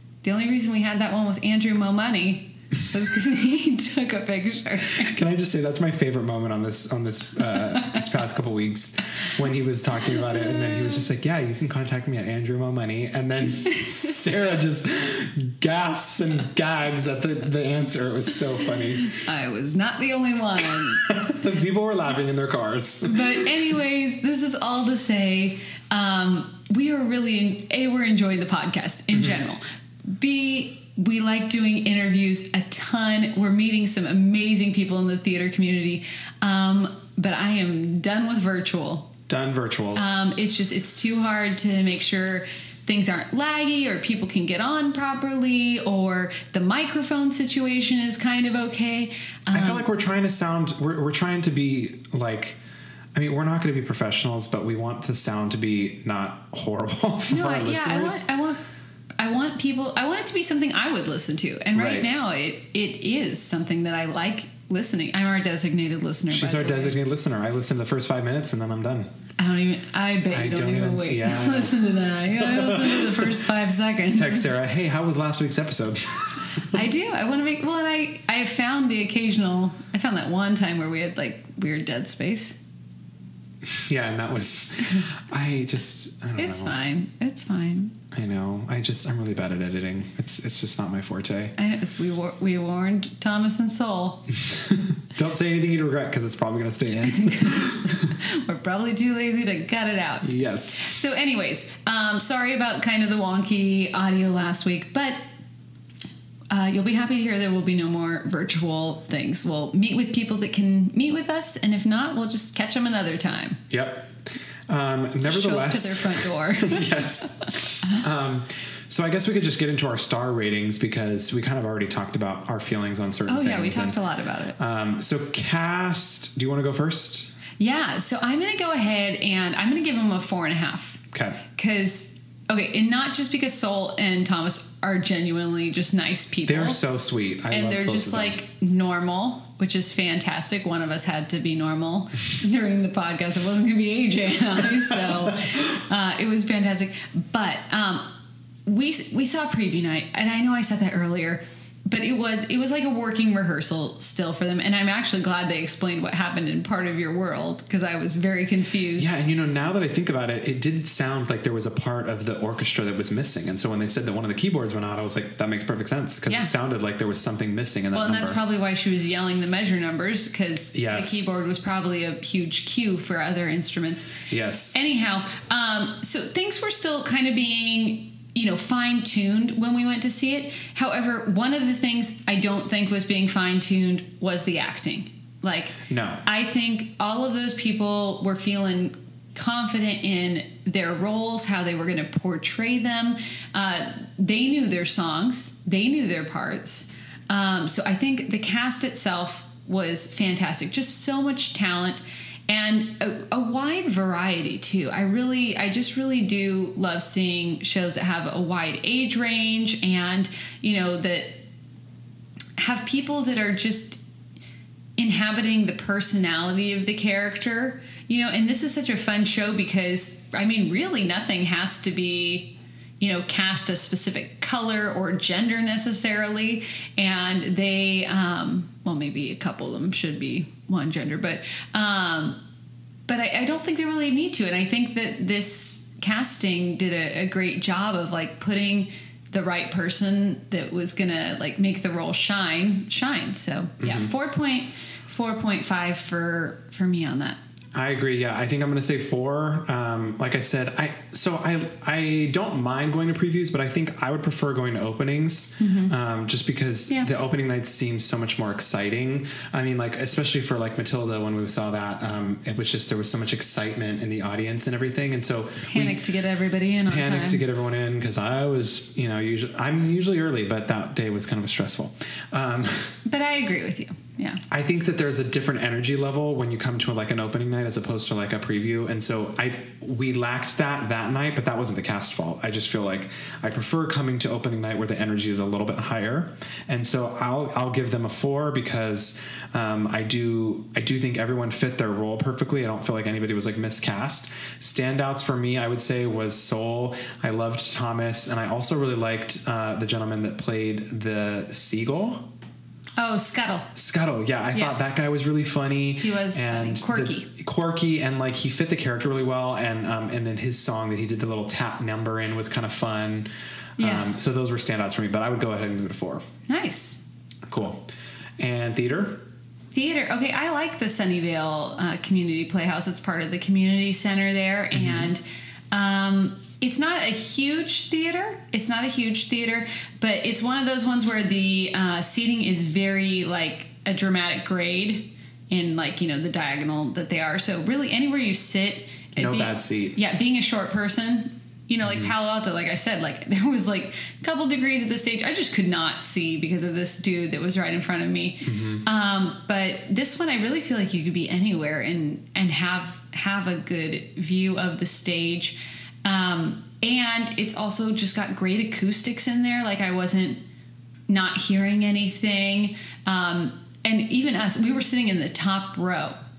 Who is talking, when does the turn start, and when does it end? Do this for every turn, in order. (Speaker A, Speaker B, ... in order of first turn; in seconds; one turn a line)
Speaker A: 0.2-5.2
Speaker B: 5.0-19.2
Speaker A: 19.1-21.1
Speaker B: 20.9-23.4
Speaker A: 23.0-39.1
Speaker B: 29.1-29.4
Speaker B: 39.3-40.2
Speaker A: 40.0-49.9
Speaker B: 49.5-52.6
Speaker B: 53.1-58.3
Speaker A: 57.3-58.6
Speaker A: 59.2-67.0
Speaker B: 61.7-62.3
Speaker B: 66.3-69.1
Speaker A: 69.4-74.5
Speaker B: 70.3-73.3
Speaker B: 74.1-76.8
Speaker A: 76.7-82.6
Speaker B: 83.7-86.8
Speaker A: 86.4-88.0
Speaker B: 88.1-91.5
Speaker A: 91.6-94.3
Speaker B: 94.4-98.1
Speaker A: 97.1-105.2
Speaker B: 100.2-100.9
Speaker A: 106.5-113.6
Speaker B: 113.7-114.2
Speaker B: 114.7-124.0
Speaker A: 115.2-116.9
Speaker A: 123.3-124.6
Speaker B: 124.6-127.3
Speaker A: 127.6-131.0
Speaker B: 131.1-131.4
Speaker A: 131.6-136.8
Speaker B: 136.5-138.4
Speaker A: 137.5-148.1
Speaker A: 148.7-159.2
Speaker B: 159.0-168.4
Speaker A: 167.9-174.1
Speaker B: 170.7-171.3
Speaker B: 174.3-174.8
Speaker A: 174.7-211.4
Speaker B: 185.9-186.2
Speaker A: 212.6-214.0
Speaker A: 215.0-232.4
Speaker A: 233.1-247.4
Speaker B: 243.8-244.1
Speaker B: 247.8-266.0
Speaker A: 255.6-255.9
Speaker A: 265.6-267.4
Speaker B: 266.9-273.0
Speaker A: 273.1-274.4
Speaker B: 274.5-302.2
Speaker A: 303.0-303.7
Speaker B: 303.8-316.3
Speaker A: 306.0-307.3
Speaker A: 313.8-314.1
Speaker A: 316.5-317.0
Speaker B: 317.5-317.9
Speaker B: 318.4-319.2
Speaker A: 319.7-360.4
Speaker B: 324.7-325.1
Speaker B: 339.2-340.0
Speaker B: 341.8-342.1
Speaker B: 348.4-348.9
Speaker A: 361.1-366.2